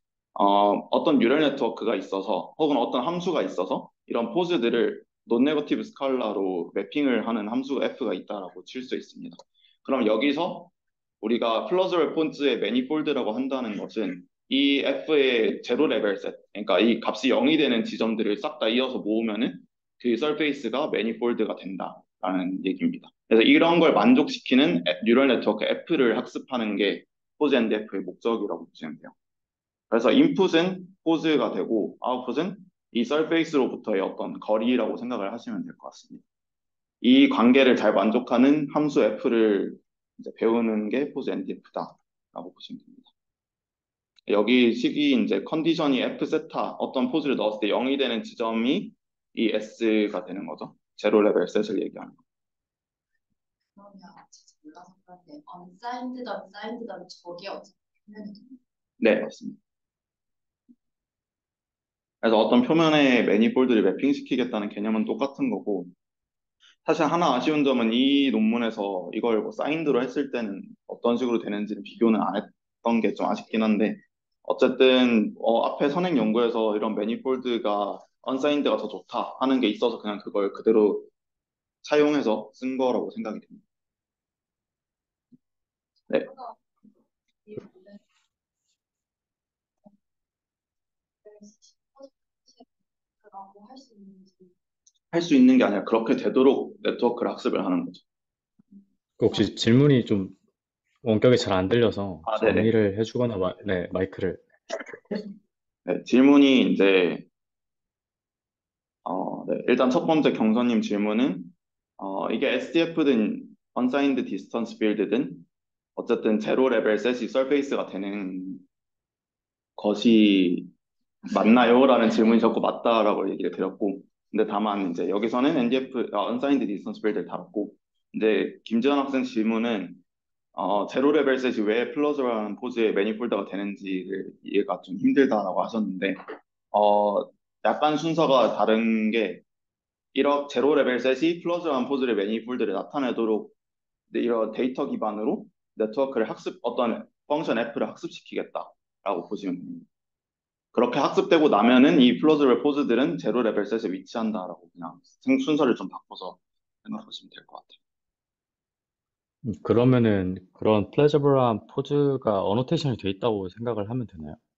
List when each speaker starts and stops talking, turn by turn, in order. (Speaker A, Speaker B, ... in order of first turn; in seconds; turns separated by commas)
Speaker A: 0.3-29.1, Speaker A: 29.9-36.2, Speaker A: 37.0-43.1, Speaker A: 44.3-52.2, Speaker B: 53.8-58.6, Speaker A: 59.0-59.6, Speaker A: 62.2-65.9, Speaker A: 66.8-81.1, Speaker A: 81.8-83.6, Speaker B: 86.1-86.6, Speaker B: 87.5-88.0, Speaker B: 91.2-92.7, Speaker B: 93.2-94.5, Speaker A: 95.1-98.0, Speaker C: 99.2-100.4, Speaker C: 101.0-104.5, Speaker A: 102.2-102.7, Speaker A: 105.9-107.3, Speaker A: 109.0-118.6, Speaker A: 119.8-120.7, Speaker A: 121.2-130.0, Speaker A: 130.6-139.4, Speaker A: 140.1-143.5, Speaker A: 144.1-149.9, Speaker A: 150.7-157.8, Speaker C: 159.4-164.4